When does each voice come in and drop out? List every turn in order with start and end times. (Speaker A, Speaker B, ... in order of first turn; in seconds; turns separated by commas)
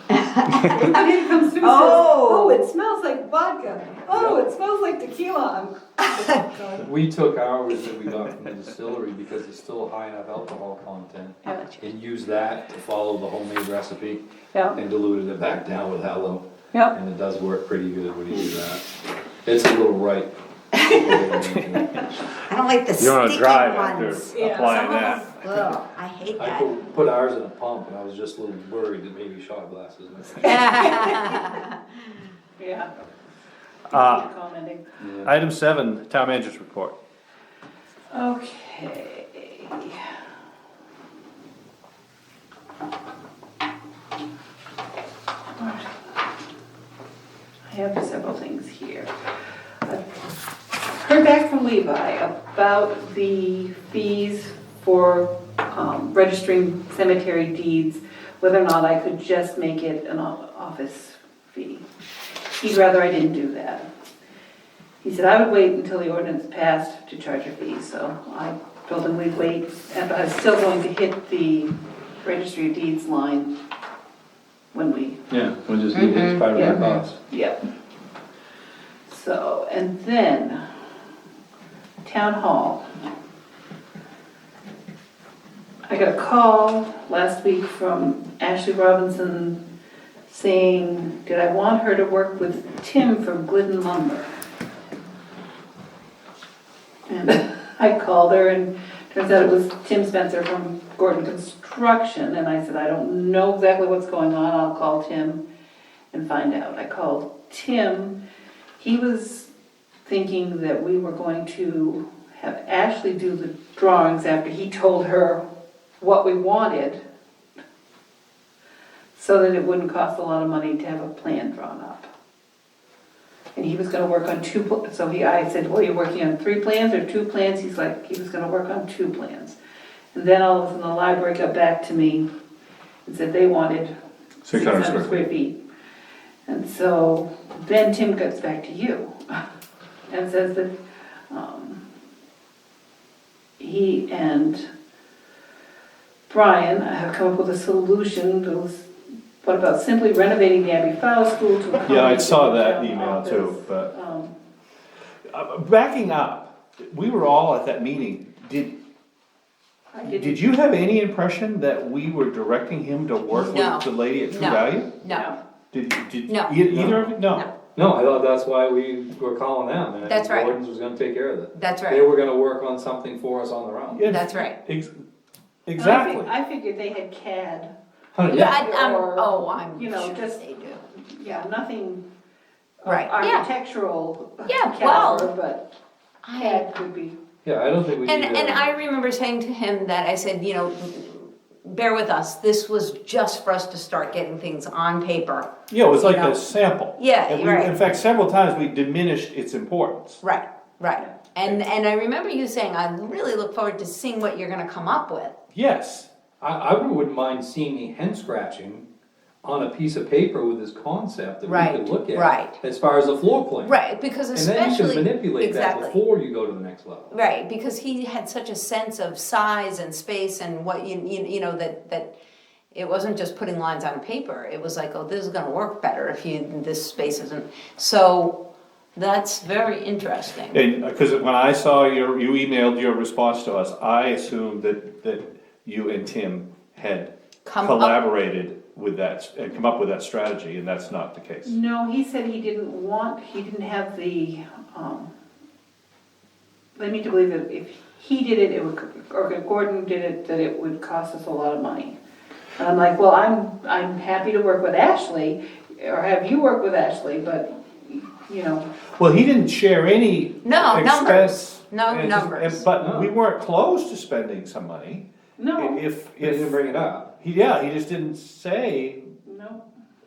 Speaker A: 0.1-1.1, Speaker B: 0.5-6.9, Speaker A: 1.6-2.6, Speaker C: 4.1-4.4, Speaker C: 6.8-22.2, Speaker B: 11.4-11.8, Speaker B: 14.5-14.8, Speaker A: 20.8-21.1, Speaker A: 22.5-26.7, Speaker D: 23.0-25.3, Speaker B: 24.3-24.9, Speaker C: 26.4-31.0, Speaker A: 30.4-31.8, Speaker B: 30.4-31.5, Speaker B: 32.6-32.9, Speaker B: 33.9-34.9, Speaker D: 33.9-34.3, Speaker C: 35.0-35.3, Speaker D: 35.2-37.0, Speaker B: 38.1-40.1, Speaker B: 45.6-46.1, Speaker B: 47.7-49.1, Speaker B: 50.9-61.9, Speaker B: 62.6-63.9, Speaker B: 65.0-71.7, Speaker B: 72.2-73.5, Speaker B: 74.7-75.3, Speaker C: 75.3-77.2, Speaker A: 75.9-77.0, Speaker B: 76.5-77.6, Speaker B: 79.1-80.7, Speaker B: 82.0-82.9, Speaker B: 85.9-89.6, Speaker B: 90.3-94.3, Speaker B: 97.1-105.4, Speaker B: 106.1-108.2, Speaker B: 108.8-109.5, Speaker B: 110.1-115.4, Speaker B: 116.0-117.0, Speaker B: 119.2-122.1, Speaker B: 123.5-129.6, Speaker B: 130.1-132.3, Speaker B: 133.1-133.9, Speaker D: 134.4-135.2, Speaker B: 134.5-135.6, Speaker B: 136.5-139.2, Speaker B: 140.1-140.7, Speaker B: 141.3-141.8, Speaker B: 143.6-144.7, Speaker B: 146.3-148.9, Speaker B: 149.4-154.3, Speaker D: 151.8-153.9, Speaker D: 155.3-158.7, Speaker B: 159.9-160.4, Speaker D: 160.1-164.9, Speaker A: 163.3-165.3, Speaker B: 165.1-165.4, Speaker D: 165.7-167.5, Speaker A: 166.3-166.6, Speaker C: 166.7-167.0, Speaker C: 167.8-174.0, Speaker A: 170.1-170.6, Speaker A: 171.5-172.0, Speaker D: 173.9-174.9, Speaker A: 174.1-174.6, Speaker D: 175.7-176.3, Speaker B: 175.8-177.7, Speaker C: 178.2-178.7, Speaker A: 178.3-180.8, Speaker B: 178.3-182.0, Speaker B: 182.8-185.7, Speaker A: 182.8-183.5, Speaker A: 184.5-185.3, Speaker A: 186.2-186.7, Speaker B: 186.4-187.2, Speaker C: 187.4-188.7, Speaker A: 188.0-196.4, Speaker D: 195.7-200.2, Speaker A: 197.0-197.8, Speaker A: 200.2-205.3, Speaker D: 205.5-206.1, Speaker C: 206.4-208.9, Speaker C: 209.4-213.8, Speaker A: 211.5-212.6, Speaker A: 213.6-216.0, Speaker C: 214.3-217.1, Speaker A: 217.1-222.1, Speaker A: 222.7-228.4, Speaker A: 228.9-230.6, Speaker D: 230.5-241.6, Speaker A: 237.4-238.0, Speaker B: 241.4-245.1, Speaker B: 246.8-252.0, Speaker B: 252.6-258.7, Speaker D: 259.0-266.6, Speaker A: 260.4-262.6, Speaker C: 262.8-263.1, Speaker B: 265.4-265.8, Speaker C: 266.2-267.1, Speaker D: 267.2-269.1, Speaker B: 269.3-269.6